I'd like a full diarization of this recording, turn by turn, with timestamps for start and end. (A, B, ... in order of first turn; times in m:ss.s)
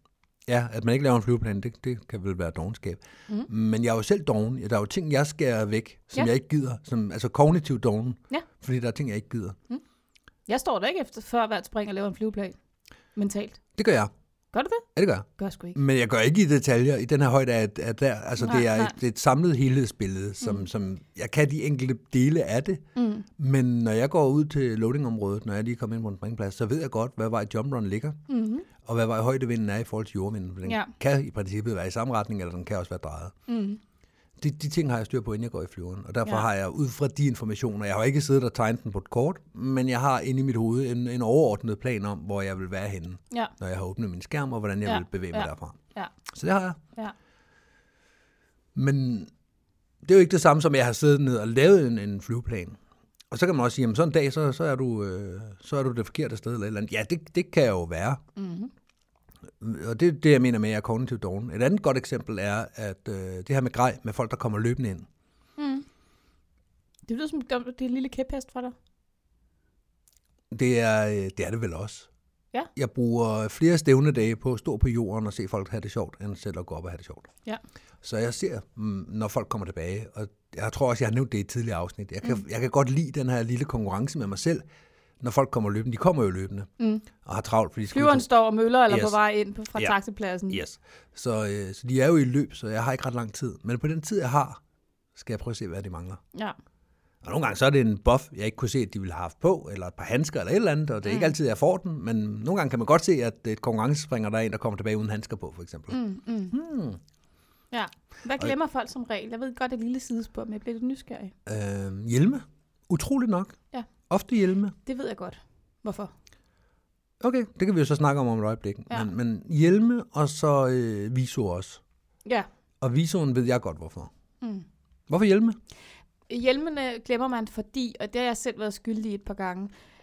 0:00.5-0:09.6 A
0:10.5-0:12.6 B
0:13.2-0:13.6 B
0:13.8-0:14.1 A
0:14.5-0:14.8 B
0:15.0-0:22.8 A
0:15.4-0:15.8 B
0:18.4-0:19.0 B
0:23.0-0:23.3 B
0:23.4-0:28.2 A
0:28.3-0:28.7 B
0:28.8-0:33.3 A
0:30.7-0:30.9 B
0:33.5-0:33.8 B
0:34.4-0:45.8 A
0:44.8-0:46.1 B
0:46.3-0:46.8 A
0:48.8-0:49.3 A
0:50.0-0:52.8 A
0:53.3-0:58.2 A
0:58.4-0:58.7 B
0:59.6-1:05.1 A
1:05.6-1:05.9 B
1:07.1-1:08.8 B
1:10.5-1:12.1 A
1:12.8-1:17.3 A
1:18.0-1:24.6 A
1:25.2-1:28.3 A
1:26.8-1:27.0 B
1:27.9-1:30.6 B
1:28.9-1:29.1 A
1:30.5-1:34.6 A
1:35.2-1:36.2 A
1:37.2-1:46.0 A
1:41.0-1:41.3 B
1:45.9-1:46.6 B
1:46.5-1:47.0 A
1:47.7-1:51.3 B
1:51.5-1:53.6 A
1:54.1-1:54.8 A
1:54.8-1:56.1 B
1:57.2-2:01.8 A
2:02.8-2:04.1 A
2:05.1-2:05.6 A
2:06.3-2:09.7 B